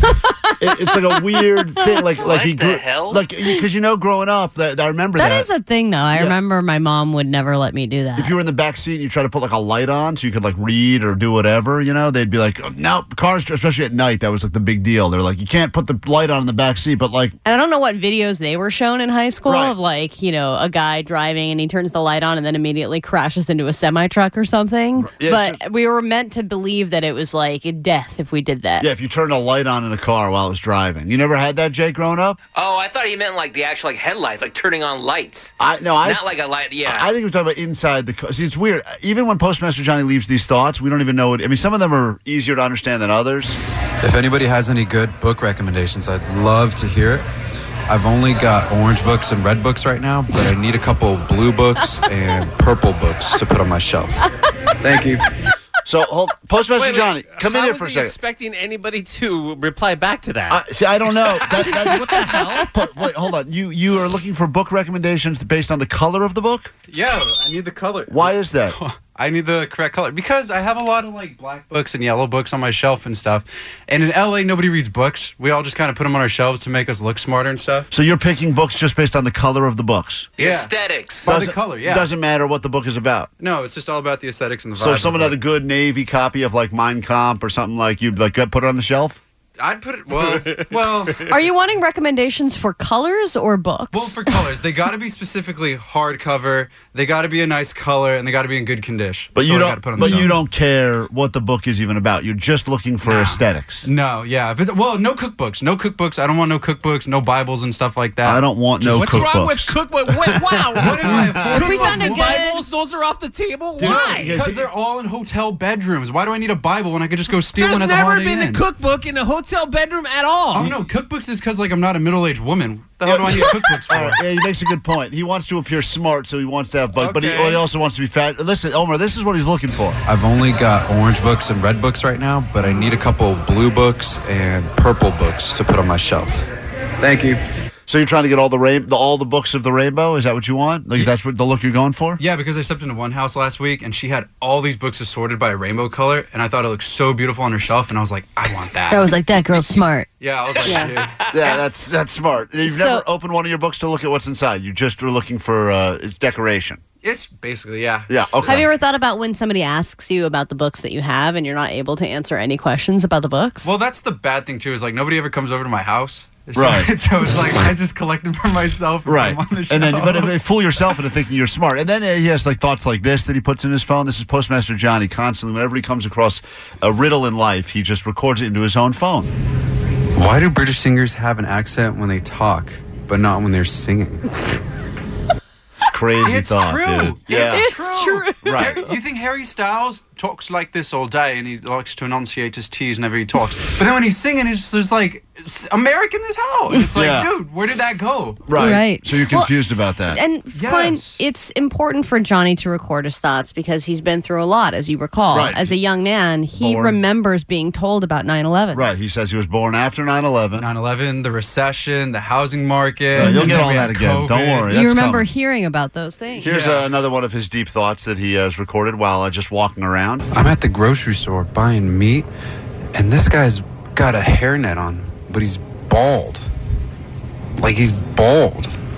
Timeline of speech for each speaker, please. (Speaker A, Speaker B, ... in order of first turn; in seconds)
Speaker A: 0.1-2.0, 5.2-8.3, 17.4-28.9, 91.2-94.3, 111.5-112.6, 148.9-150.1, 150.6-150.9, 152.6-153.0, 158.4-163.7, 187.3-188.7, 198.5-199.5, 200.1-208.8, 213.2-213.6, 214.7-216.5
Speaker B: 0.6-5.5, 8.2-17.3, 19.4-19.7, 25.0-25.6, 28.8-32.4, 35.6-36.2, 36.8-43.6, 55.8-58.1, 60.5-66.7, 68.1-68.8, 77.9-80.3, 81.2-83.3, 84.8-89.2, 99.3-103.8, 108.2-109.7, 111.0-111.3, 113.8-114.6, 123.0-130.0, 137.9-142.2, 151.3-156.8, 158.1-158.7, 166.6-166.9, 169.1-179.3, 185.8-187.7, 188.4-188.8, 196.9-197.3, 198.5-200.2, 205.3-205.8, 206.6-207.0, 208.7-210.7, 213.1-215.3, 216.4-220.3
Speaker C: 2.2-3.2, 32.5-37.1, 80.4-81.3, 150.7-151.6
Speaker D: 44.0-47.2, 47.9-54.2, 54.8-55.2, 66.9-77.9, 80.4-82.1, 83.4-85.4, 89.6-91.3, 93.9-100.4, 103.0-108.4, 110.8-112.4, 113.9-118.6, 120.5-124.2, 130.1-136.4, 137.0-137.4, 142.2-151.2, 157.0-158.6, 163.6-170.3, 180.1-184.3, 186.2-198.4, 200.5-201.2, 210.6-214.7, 216.4-216.9, 220.3-222.3, 222.9-226.4, 227.6-228.7
Speaker E: 56.7-60.6, 61.3-62.7, 108.8-114.5, 117.5-120.8, 127.1-127.3